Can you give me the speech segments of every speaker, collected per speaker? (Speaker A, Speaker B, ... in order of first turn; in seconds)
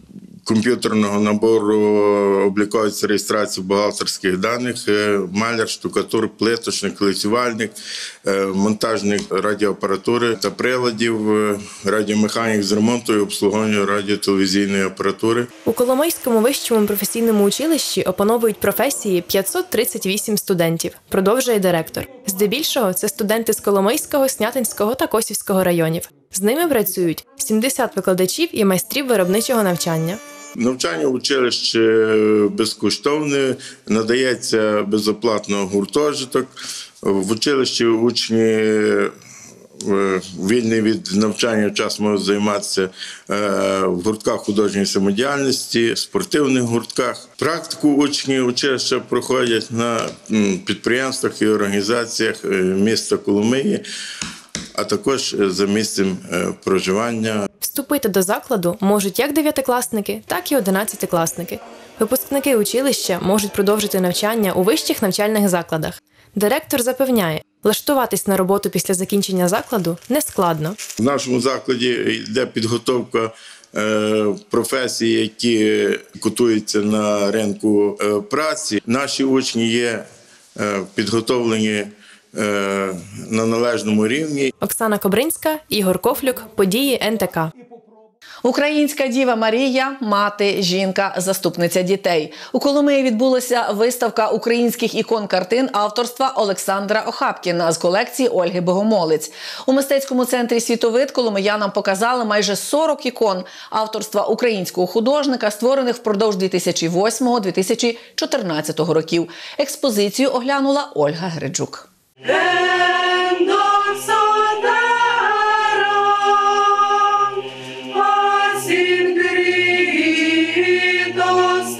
Speaker A: 0.4-15.5, 30.5-39.1, 39.8-53.8, 54.7-57.5, 71.0-80.0, 80.5-84.5
Speaker B: 15.6-30.2, 57.6-70.8, 84.6-87.5
Speaker C: 88.4-111.9